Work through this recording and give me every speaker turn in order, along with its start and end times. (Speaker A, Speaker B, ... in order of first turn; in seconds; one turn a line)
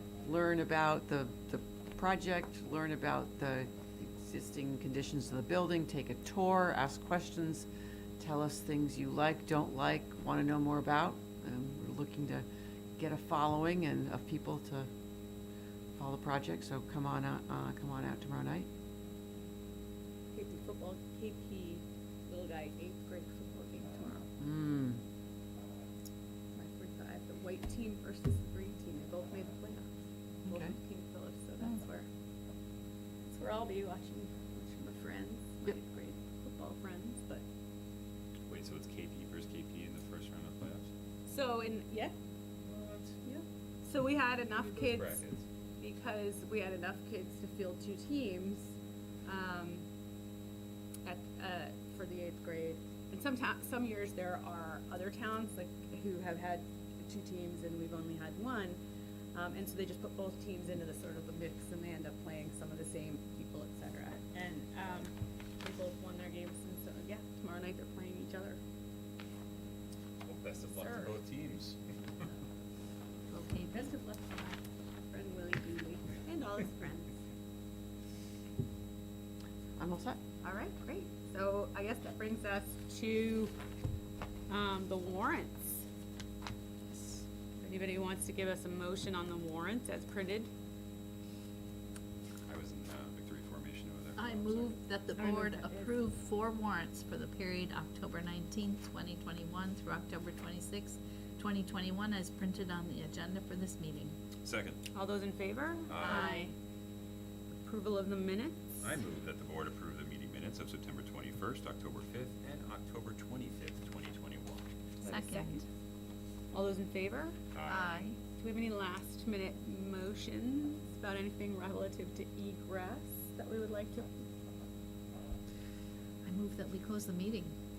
Speaker A: 0.2-7.7
Speaker A: 8.2-12.5
Speaker A: 13.0-14.9
Speaker A: 16.0-18.7
Speaker B: 20.3-24.3
Speaker A: 24.4-25.0
Speaker B: 26.5-29.9
Speaker A: 30.5-30.8
Speaker B: 30.5-32.1
Speaker B: 33.3-37.5
Speaker C: 38.5-40.9
Speaker B: 41.3-42.1
Speaker C: 42.6-43.2
Speaker B: 43.2-45.2
Speaker C: 44.6-45.4
Speaker B: 45.8-49.8
Speaker B: 51.0-58.8
Speaker B: 59.3-68.6
Speaker C: 70.2-72.3
Speaker B: 70.7-71.2
Speaker D: 73.3-73.9
Speaker B: 73.6-77.2
Speaker A: 79.8-80.2
Speaker B: 80.4-83.5
Speaker B: 84.5-85.8
Speaker B: 87.0-90.5
Speaker C: 92.5-94.8
Speaker D: 94.2-104.2
Speaker B: 95.2-95.9
Speaker C: 104.4-104.8
Speaker B: 104.9-106.5
Speaker C: 105.9-106.3
Speaker D: 106.0-106.5
Speaker B: 107.6-109.0
Speaker C: 108.8-114.7
Speaker B: 115.0-115.6
Speaker D: 115.0-115.7
Speaker B: 116.5-117.4
Speaker C: 117.5-118.1
Speaker D: 117.7-118.2
Speaker B: 118.3-124.2
Speaker D: 126.2-127.6